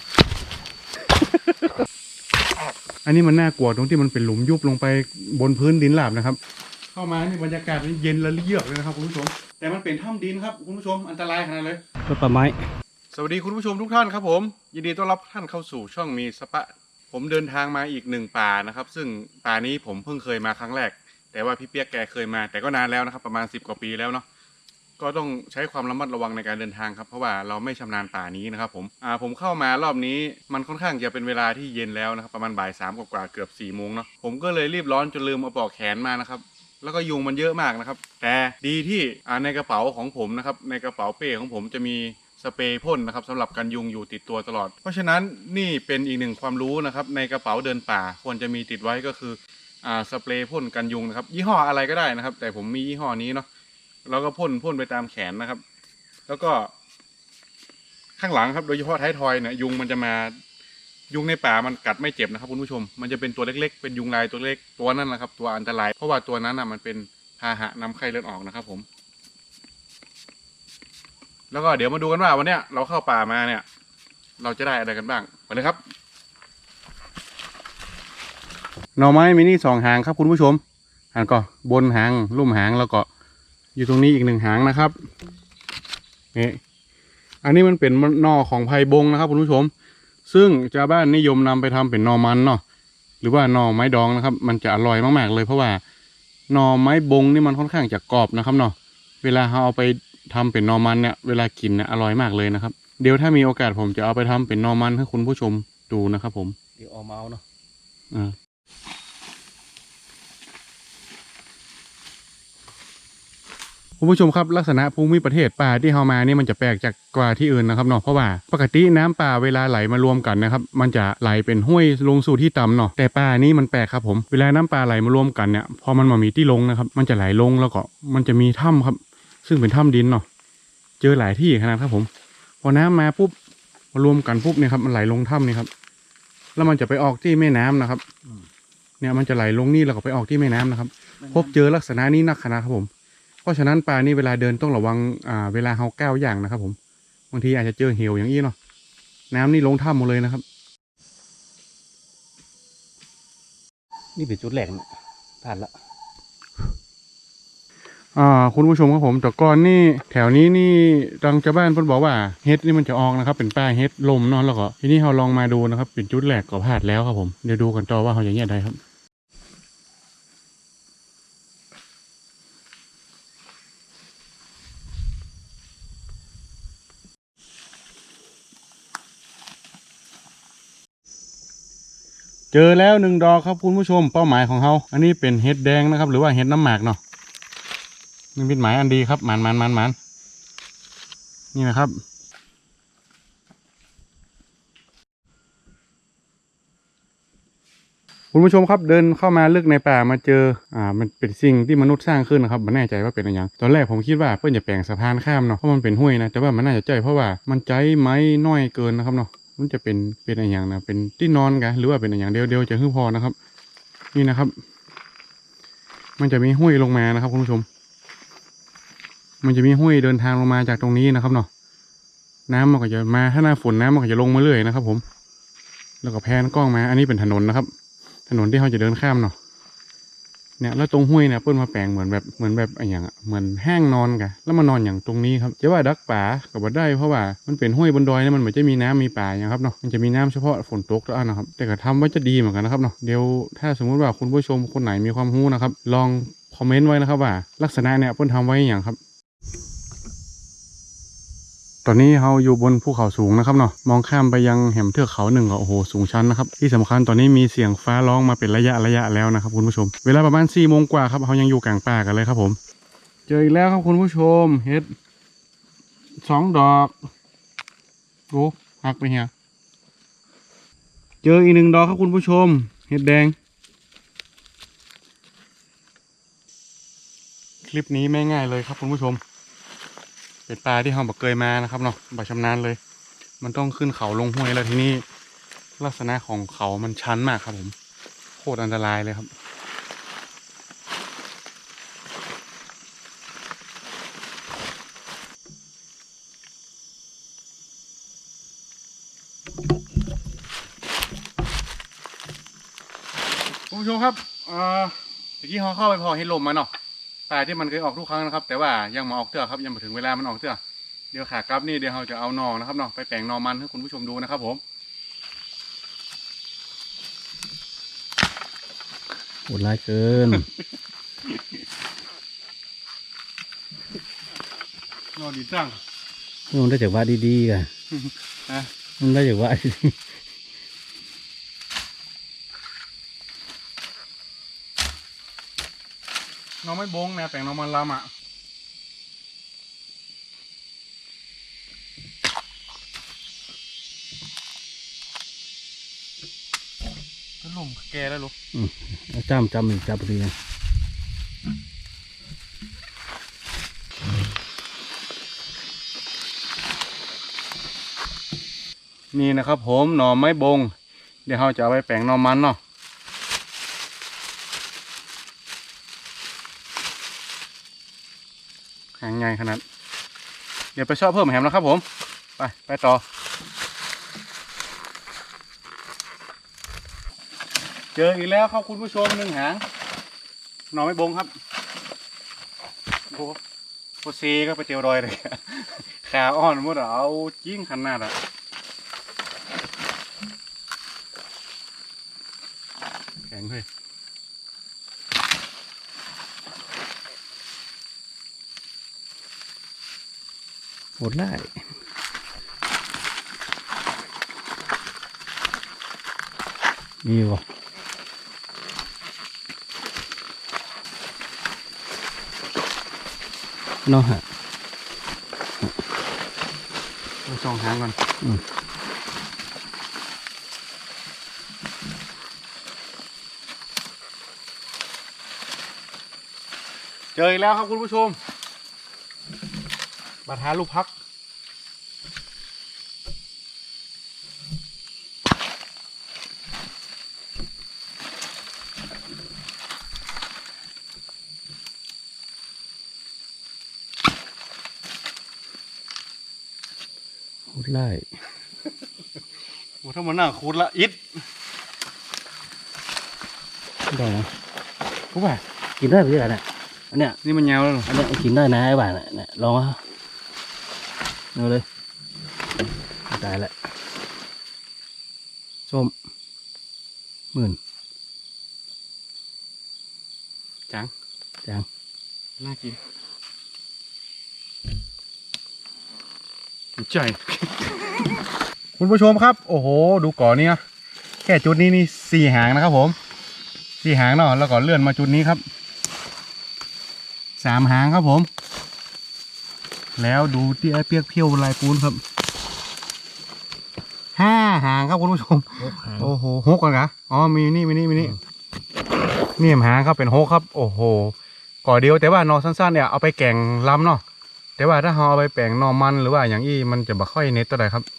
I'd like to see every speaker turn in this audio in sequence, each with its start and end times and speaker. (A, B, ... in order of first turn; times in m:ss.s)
0:03.0-0:06.4 A
0:06.9-0:11.8 A
0:12.1-0:12.6 B
0:13.1-0:24.2 A
0:25.0-0:53.5 A
0:54.1-0:55.6 A
0:56.3-0:56.7 A
0:58.2-1:00.4 A
1:01.1-1:08.9 A
1:11.5-1:13.6 A
1:14.4-1:15.8 A
1:19.0-1:20.6 A
1:21.1-1:23.1 A
1:23.8-1:24.9 A
1:26.3-1:26.6 A
1:27.4-1:29.7 A
1:30.3-1:32.6 A
1:33.2-1:35.8 A
1:36.5-1:46.6 A
1:46.8-1:47.4 B
1:54.0-2:10.3 A
2:11.0-2:12.1 A
2:12.6-2:13.3 A
2:13.9-2:15.7 A
2:16.6-2:18.0 A
2:19.0-2:22.9 A
2:21.2-2:21.5 B
2:23.4-2:26.8 A
2:27.3-2:28.6 A
2:29.3-2:30.4 A
2:34.2-2:34.9 B
2:35.4-2:35.7 B
2:38.2-2:48.8 A
3:02.5-3:07.0 A
3:08.4-3:10.0 A
3:11.5-3:12.0 A
3:18.3-3:33.4 A
3:34.1-3:34.6 A
3:36.2-3:37.7 A
3:39.4-3:41.5 A
3:42.5-3:45.0 A
3:46.0-3:47.7 A
3:48.3-3:49.4 A
3:50.6-4:09.0 A
4:11.8-4:22.6 A
4:23.3-4:24.9 A
4:26.2-4:27.0 A
4:28.3-4:29.3 A
4:31.2-4:33.4 A
4:37.6-4:39.2 A
4:40.5-4:42.8 A
4:43.4-4:45.0 A
4:45.8-4:47.7 A
4:48.4-4:49.3 A
5:03.7-5:06.7 A
5:07.3-5:10.6 A
5:11.1-5:14.6 A
5:19.5-5:20.5 B
5:25.2-5:25.8 A
5:26.5-5:27.7 B
5:27.9-5:28.7 A
5:29.0-5:30.0 B
5:36.6-5:38.1 A
5:47.4-5:48.3 A
5:48.5-5:50.3 B
5:59.1-6:00.7 A
6:01.3-6:02.6 A
6:09.0-6:09.6 A
6:10.8-6:11.8 A
6:12.4-6:13.0 A
6:18.0-6:19.6 A
6:20.7-6:21.3 A
6:23.1-6:23.4 A
6:24.0-6:28.2 A
6:33.2-6:33.7 A
6:41.0-6:41.6 B
6:47.0-6:47.4 B
6:53.9-6:54.2 B
6:57.2-6:58.0 A
7:07.2-7:08.2 A
7:10.3-7:10.9 A
7:27.5-7:28.1 B
7:29.8-7:31.0 A
7:33.9-7:34.3 B
7:35.1-7:35.4 A
7:35.8-7:37.2 B
7:37.2-7:37.9 A
7:37.9-7:39.8 B
7:41.4-7:41.6 B
7:43.1-7:43.6 B
7:45.7-7:45.9 B
7:52.4-7:52.8 A
7:56.8-7:58.1 A
7:58.8-8:00.6 A
8:01.2-8:03.0 A
8:03.8-8:05.4 A
8:07.4-8:08.3 A
8:10.0-8:12.0 A
8:14.2-8:18.2 A
8:15.6-8:16.1 B
8:19.4-8:24.0 A
8:24.6-8:27.9 A